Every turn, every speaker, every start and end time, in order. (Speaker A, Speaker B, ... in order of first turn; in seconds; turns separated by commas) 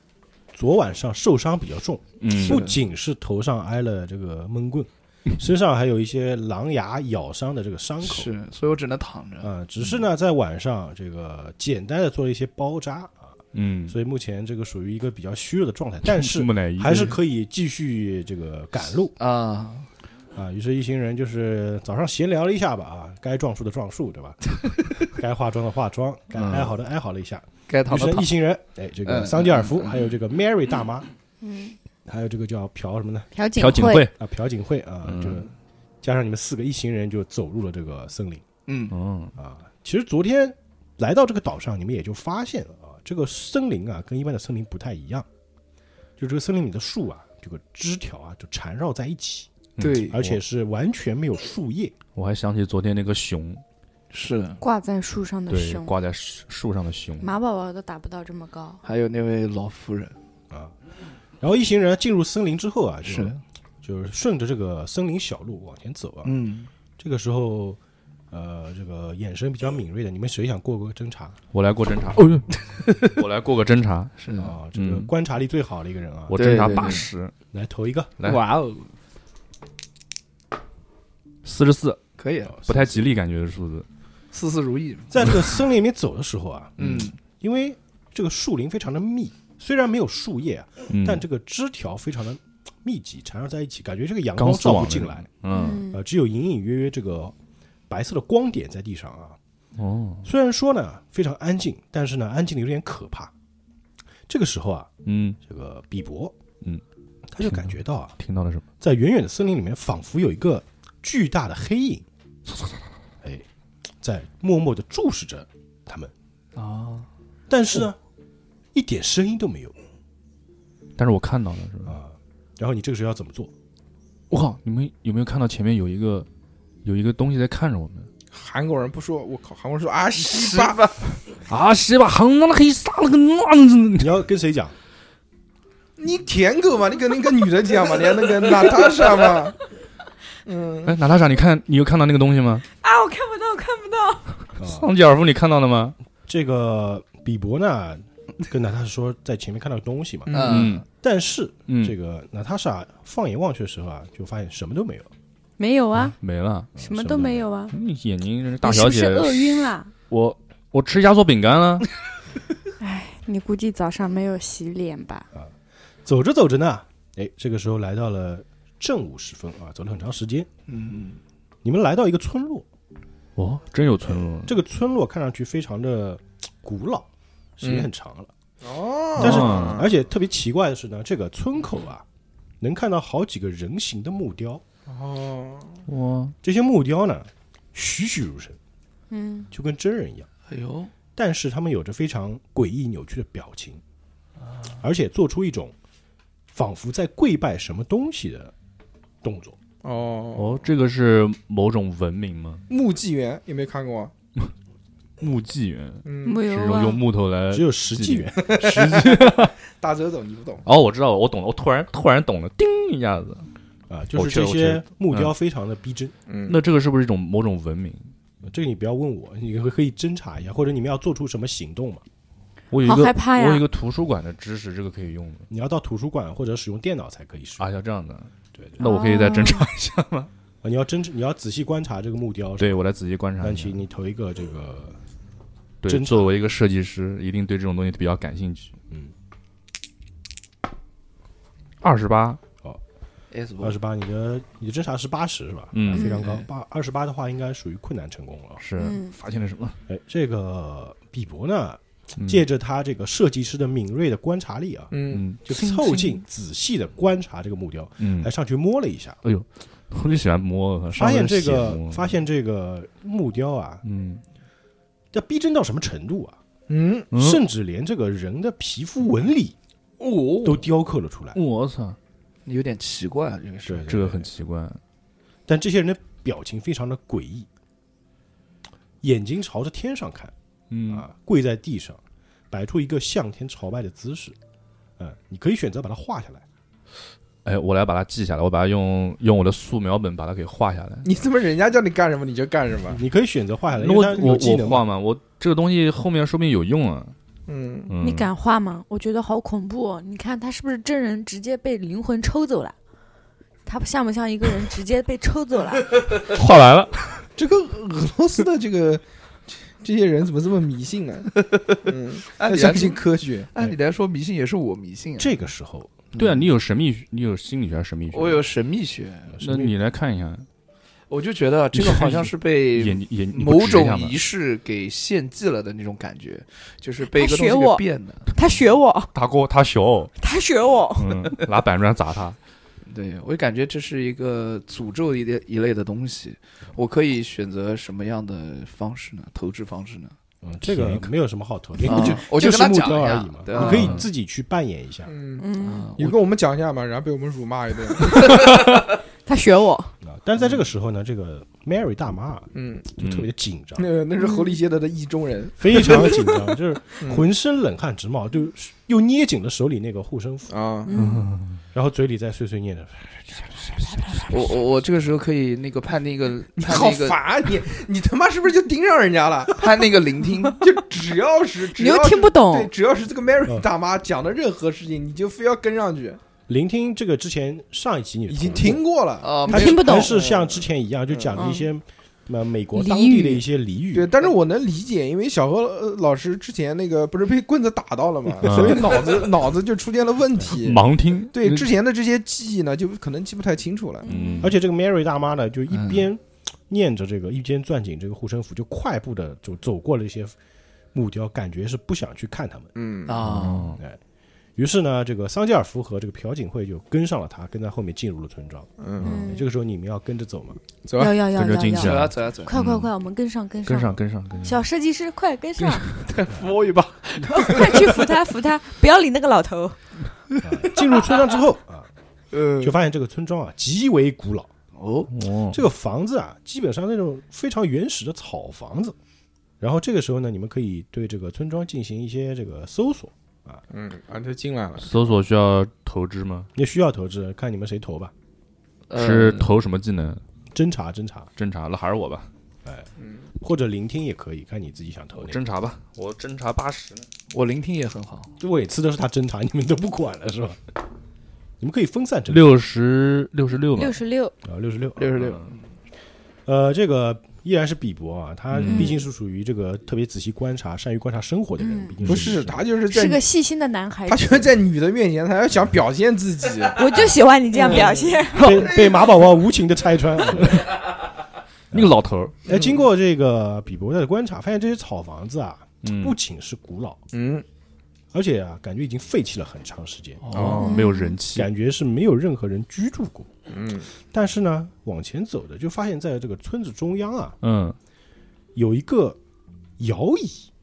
Speaker A: 0.5-8.3, Speaker B: 2.2-2.6, Speaker C: 2.4-2.8, Speaker C: 8.0-9.5, Speaker A: 9.4-13.4, Speaker B: 13.5-13.9, Speaker A: 13.9-19.1, Speaker B: 16.1-17.1, Speaker C: 19.2-19.9, Speaker A: 20.3-31.1, Speaker B: 26.4-26.7, Speaker C: 27.7-28.4, Speaker C: 29.0-30.0, Speaker D: 31.4-31.7, Speaker A: 32.0-33.3, Speaker D: 33.3-34.1, Speaker B: 33.5-34.1, Speaker A: 34.1-35.5, Speaker B: 35.0-35.4, Speaker A: 36.0-38.4, Speaker C: 38.7-38.9, Speaker B: 38.9-39.3, Speaker A: 39.4-45.2, Speaker A: 46.2-49.5, Speaker B: 49.8-50.4, Speaker C: 49.8-50.2, Speaker A: 50.1-52.0, Speaker B: 52.1-53.6, Speaker C: 54.1-54.6, Speaker D: 54.6-56.0, Speaker B: 55.5-57.3, Speaker D: 57.2-58.8, Speaker C: 58.8-60.1, Speaker A: 61.4-66.3, Speaker C: 63.0-63.4, Speaker C: 66.2-66.7, Speaker A: 67.0-67.8, Speaker A: 68.3-71.3, Speaker B: 71.5-74.2, Speaker C: 72.2-73.2, Speaker C: 74.2-74.5, Speaker A: 74.4-76.4, Speaker B: 74.7-75.1, Speaker B: 76.3-77.3, Speaker C: 76.3-77.0, Speaker A: 77.5-78.2, Speaker C: 78.2-78.9, Speaker B: 81.4-82.0, Speaker C: 82.2-82.5, Speaker A: 82.5-83.1, Speaker B: 82.7-83.8, Speaker C: 84.3-85.3, Speaker A: 85.1-95.3, Speaker B: 86.8-87.1, Speaker B: 90.9-91.2, Speaker B: 94.4-95.8, Speaker D: 95.5-96.0, Speaker A: 95.9-97.3, Speaker A: 97.9-99.4, Speaker B: 99.8-100.3, Speaker A: 100.2-103.3, Speaker A: 104.3-106.3, Speaker B: 105.0-105.4, Speaker A: 107.3-108.1, Speaker B: 107.4-108.6, Speaker A: 108.8-112.0, Speaker A: 114.0-116.1, Speaker C: 116.5-117.1, Speaker A: 117.5-118.0, Speaker A: 118.7-119.7, Speaker B: 121.0-121.9, Speaker A: 121.8-123.5, Speaker B: 124.3-126.3, Speaker B: 126.8-128.1, Speaker E: 128.3-130.9, Speaker C: 130.2-130.9, Speaker B: 131.5-134.2, Speaker A: 134.0-134.7, Speaker E: 136.0-139.6, Speaker E: 140.4-140.9, Speaker B: 140.8-142.6, Speaker D: 142.8-144.4, Speaker A: 144.6-144.9, Speaker B: 144.6-145.9, Speaker A: 146.3-150.4, Speaker E: 150.3-150.7, Speaker C: 150.3-150.8, Speaker B: 150.4-150.8, Speaker A: 150.9-155.1, Speaker B: 151.7-151.9, Speaker D: 155.6-156.2, Speaker B: 156.0-156.8, Speaker D: 156.8-157.7, Speaker A: 156.8-157.5, Speaker B: 157.7-161.9, Speaker D: 158.6-159.9, Speaker D: 162.8-165.3, Speaker A: 166.0-170.5, Speaker C: 170.7-171.2, Speaker A: 171.6-172.7, Speaker B: 173.3-174.5, Speaker A: 174.4-177.1, Speaker A: 177.6-178.3, Speaker E: 177.6-177.9, Speaker E: 178.6-179.9, Speaker B: 179.2-179.9, Speaker A: 179.2-182.0, Speaker A: 182.6-184.6, Speaker E: 184.9-185.8, Speaker B: 185.9-186.3, Speaker A: 186.4-188.6, Speaker D: 189.1-189.5, Speaker A: 189.5-190.3, Speaker C: 190.5-190.9, Speaker A: 191.2-193.8, Speaker A: 194.8-195.7, Speaker A: 196.5-198.5, Speaker A: 199.2-199.6, Speaker E: 199.8-200.7, Speaker B: 200.3-202.6, Speaker E: 202.7-204.1, Speaker B: 205.2-209.5, Speaker E: 206.0-206.4, Speaker D: 206.2-207.0, Speaker A: 207.5-208.8, Speaker E: 208.4-210.6, Speaker B: 210.6-213.5, Speaker A: 213.9-216.1, Speaker B: 214.1-215.3, Speaker E: 216.3-216.6, Speaker B: 216.5-218.1, Speaker A: 218.4-222.0, Speaker B: 222.7-225.5, Speaker D: 222.8-223.6, Speaker A: 225.5-227.6, Speaker B: 227.6-230.3, Speaker D: 228.8-229.7, Speaker A: 230.6-232.8, Speaker B: 232.6-233.7, Speaker A: 233.4-235.0, Speaker B: 235.8-238.7, Speaker A: 235.8-236.3, Speaker B: 241.8-242.4, Speaker C: 243.3-243.8, Speaker A: 243.6-248.6, Speaker B: 245.7-246.2, Speaker D: 245.9-246.2, Speaker B: 248.6-249.8, Speaker D: 248.8-249.1, Speaker A: 249.9-259.2, Speaker B: 252.2-252.4, Speaker E: 254.9-255.3, Speaker B: 255.1-255.4, Speaker D: 255.7-256.2, Speaker B: 258.0-258.3, Speaker B: 259.2-262.1, Speaker A: 260.9-263.8, Speaker B: 263.8-264.2, Speaker A: 265.1-266.4, Speaker E: 266.7-267.1, Speaker B: 267.1-267.4, Speaker A: 267.1-269.6, Speaker C: 270.0-270.6, Speaker A: 270.4-271.4, Speaker B: 271.3-272.0, Speaker C: 272.4-274.0, Speaker A: 273.6-274.3, Speaker B: 273.9-274.8, Speaker A: 275.5-277.5, Speaker A: 279.0-280.3, Speaker B: 280.7-281.1, Speaker A: 280.9-284.4, Speaker A: 285.0-286.4, Speaker B: 287.4-291.1, Speaker E: 291.0-293.0, Speaker A: 292.9-294.8, Speaker B: 293.7-297.1, Speaker E: 297.5-297.9, Speaker B: 297.9-298.3, Speaker D: 298.0-302.7, Speaker D: 303.6-306.0, Speaker B: 306.2-307.2, Speaker E: 307.4-311.3, Speaker C: 311.4-315.3, Speaker E: 311.8-313.5, Speaker A: 315.2-316.0, Speaker B: 316.1-318.4, Speaker C: 318.1-319.4, Speaker A: 319.4-319.7, Speaker B: 319.4-320.4, Speaker C: 321.1-328.3, Speaker B: 321.7-324.2, Speaker D: 327.1-329.1, Speaker B: 329.1-330.1, Speaker D: 330.2-331.3, Speaker B: 330.9-332.4, Speaker C: 332.9-340.1, Speaker A: 340.4-345.1, Speaker B: 340.6-341.1, Speaker C: 341.9-344.0, Speaker B: 343.6-344.0, Speaker E: 345.1-348.4, Speaker D: 345.4-345.9, Speaker C: 345.6-346.1, Speaker D: 349.2-349.9, Speaker A: 350.0-353.9, Speaker E: 352.5-352.9, Speaker B: 353.0-353.3, Speaker E: 353.8-357.3, Speaker D: 354.2-354.5, Speaker A: 355.6-360.5, Speaker E: 360.5-360.9, Speaker D: 360.9-361.3, Speaker B: 360.9-361.6, Speaker A: 361.7-364.6, Speaker C: 364.3-367.2, Speaker E: 366.6-369.6, Speaker C: 369.6-370.6, Speaker E: 370.6-376.2, Speaker D: 371.7-372.7, Speaker A: 376.5-378.8, Speaker E: 378.3-381.5, Speaker C: 379.2-379.8, Speaker D: 379.4-380.2, Speaker A: 379.5-384.1, Speaker D: 381.3-381.7, Speaker D: 382.7-383.4, Speaker E: 383.9-394.1, Speaker B: 388.4-388.9, Speaker B: 390.5-391.7, Speaker D: 394.0-394.5, Speaker B: 394.1-394.5, Speaker A: 394.4-400.4, Speaker C: 395.7-396.0, Speaker A: 400.9-402.7, Speaker E: 402.7-403.2, Speaker C: 403.1-403.8, Speaker B: 403.2-403.8, Speaker A: 404.6-410.6, Speaker E: 408.8-409.2, Speaker D: 409.0-409.4, Speaker E: 410.9-411.2, Speaker D: 410.9-416.0, Speaker B: 411.3-412.9, Speaker C: 411.8-412.5, Speaker B: 413.6-414.6, Speaker C: 416.0-417.9, Speaker D: 417.2-419.8, Speaker A: 420.4-421.9, Speaker C: 422.3-422.8, Speaker A: 422.6-424.5, Speaker C: 424.8-425.1, Speaker B: 425.1-425.6, Speaker A: 425.5-428.9, Speaker A: 429.6-433.6, Speaker E: 433.7-435.1, Speaker B: 434.8-436.5, Speaker A: 436.5-438.1, Speaker C: 438.9-439.5, Speaker B: 438.9-440.2, Speaker A: 440.5-441.3, Speaker B: 441.4-442.3, Speaker A: 443.4-445.4, Speaker B: 445.2-447.1, Speaker C: 447.3-448.3, Speaker A: 448.4-450.6, Speaker A: 451.6-452.5, Speaker B: 452.3-454.0, Speaker D: 453.7-454.3, Speaker A: 454.4-455.1, Speaker C: 455.0-455.6, Speaker B: 455.2-455.5, Speaker A: 456.4-462.6, Speaker B: 458.5-458.9, Speaker D: 458.6-459.0, Speaker D: 461.6-461.9, Speaker B: 462.0-462.4, Speaker E: 462.0-463.2, Speaker D: 462.8-464.5, Speaker E: 464.1-466.9, Speaker D: 466.7-468.7, Speaker E: 467.5-468.2, Speaker A: 468.3-470.7, Speaker B: 471.7-472.4, Speaker A: 472.4-477.0, Speaker E: 472.5-472.8, Speaker B: 475.8-476.2, Speaker E: 477.1-477.4, Speaker A: 478.1-480.2, Speaker C: 480.2-480.7, Speaker E: 480.3-480.7, Speaker B: 480.3-481.5, Speaker D: 480.6-481.2, Speaker A: 481.3-483.3, Speaker E: 483.5-483.9, Speaker A: 484.1-487.4, Speaker B: 487.4-487.8, Speaker A: 488.5-489.2, Speaker A: 489.8-490.5